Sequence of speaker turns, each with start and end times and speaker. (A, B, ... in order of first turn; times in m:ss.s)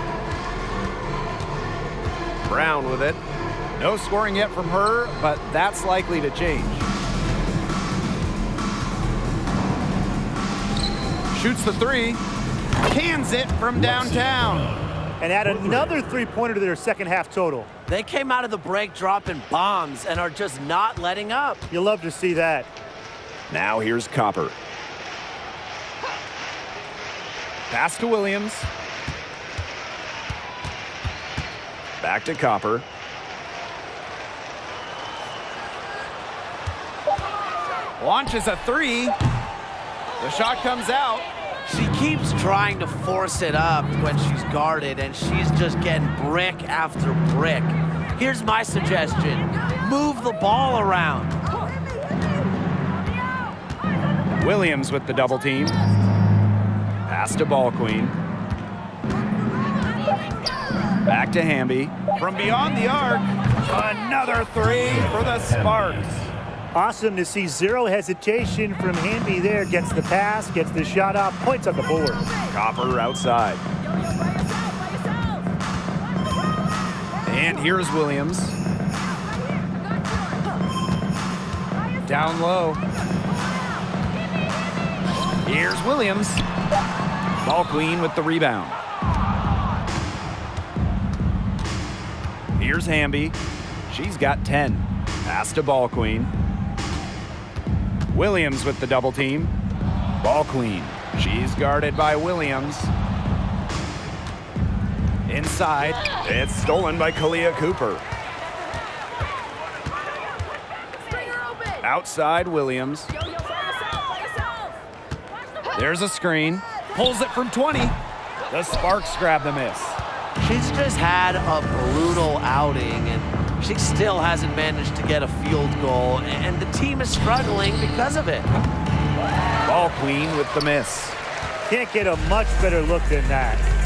0:02.4-0:03.2 A
0:03.8-0:06.9 A
0:11.3-0:12.2 A
0:12.8-0:14.8 A
0:15.2-0:17.7 B
0:17.9-0:21.6 C
0:21.7-0:22.7 B
0:23.5-0:24.5 A
0:27.7-0:28.7 A
0:32.0-0:32.8 A
0:38.0-0:39.1 A
0:40.2-0:41.2 A
0:41.6-0:51.4 C
0:54.4-0:55.8 A
0:57.1-0:58.2 A
1:01.0-1:06.3 A
1:06.7-1:12.3 B
1:12.5-1:13.6 A
1:17.2-1:18.6 A
1:22.0-1:22.8 A
1:25.4-1:26.4 A
1:27.4-1:28.8 A
1:32.6-1:33.4 A
1:33.9-1:36.3 A
1:38.1-1:39.5 A
1:40.2-1:42.9 A
1:45.3-1:48.0 A
1:51.8-1:53.1 A
1:55.7-1:58.0 A
1:58.5-2:00.0 A
2:00.4-2:08.5 C
2:09.6-2:11.2 A
2:11.7-2:13.6 B